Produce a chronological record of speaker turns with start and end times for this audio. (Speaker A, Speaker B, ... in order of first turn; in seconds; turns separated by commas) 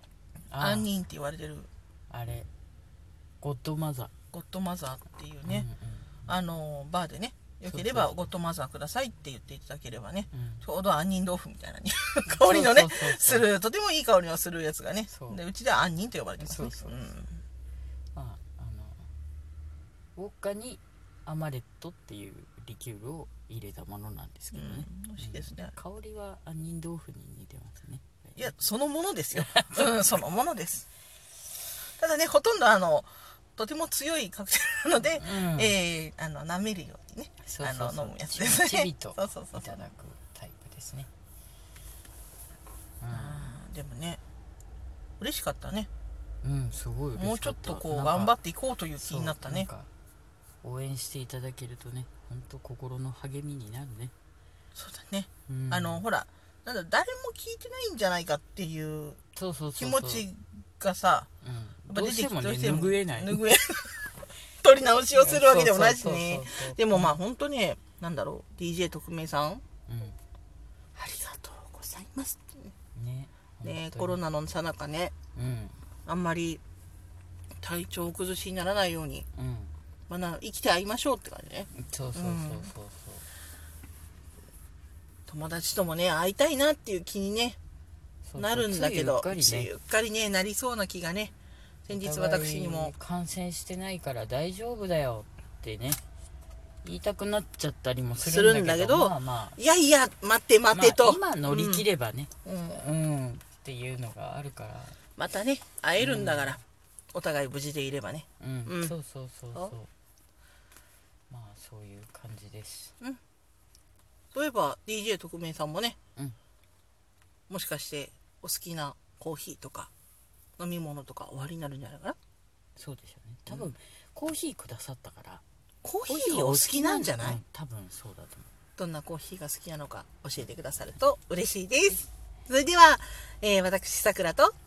Speaker A: 0.5-0.9, Speaker B: 0.6-1.7, Speaker A: 2.1-2.5, Speaker A: 3.4-4.1, Speaker B: 4.3-5.7, Speaker A: 5.4-6.3, Speaker B: 6.3-17.4, Speaker A: 7.7-8.3, Speaker A: 10.3-10.7, Speaker A: 12.3-13.5, Speaker A: 15.1-15.4, Speaker A: 16.4-17.0, Speaker A: 18.1-19.1, Speaker A: 20.1-28.5, Speaker B: 24.5-25.7, Speaker B: 28.4-30.9, Speaker A: 29.3-30.0, Speaker B: 32.0-39.8, Speaker A: 35.2-35.7, Speaker A: 37.4-41.1, Speaker A: 43.0-43.5, Speaker B: 43.1-44.2, Speaker B: 45.2-45.9, Speaker A: 46.4-48.3, Speaker B: 47.2-49.7, Speaker A: 49.0-49.9, Speaker A: 50.6-54.1, Speaker B: 54.7-59.2, Speaker A: 55.5-56.0, Speaker A: 59.3-60.2, Speaker B: 59.8-61.3, Speaker A: 61.4-63.4, Speaker B: 61.9-64.0, Speaker B: 64.6-69.6, Speaker A: 65.1-67.2, Speaker A: 69.9-70.2, Speaker B: 70.9-72.7, Speaker A: 73.0-74.2, Speaker B: 73.6-75.1, Speaker A: 75.3-75.8, Speaker B: 76.0-76.6, Speaker B: 77.6-79.2, Speaker A: 79.3-79.7, Speaker B: 80.1-82.7, Speaker A: 81.7-83.3, Speaker B: 85.3-87.6, Speaker A: 88.2-89.7, Speaker B: 88.3-91.3, Speaker B: 91.8-92.9, Speaker A: 91.9-96.0, Speaker A: 96.8-99.6, Speaker B: 98.2-101.8, Speaker A: 100.7-105.0, Speaker B: 102.4-102.8, Speaker B: 105.2-106.6, Speaker A: 106.0-106.6, Speaker B: 107.1-108.9, Speaker A: 108.4-109.9, Speaker A: 111.3-112.9, Speaker B: 114.3-116.0, Speaker B: 117.5-119.9, Speaker B: 120.6-122.2, Speaker A: 122.8-125.4, Speaker B: 125.8-127.4, Speaker A: 126.1-128.5, Speaker B: 128.8-134.5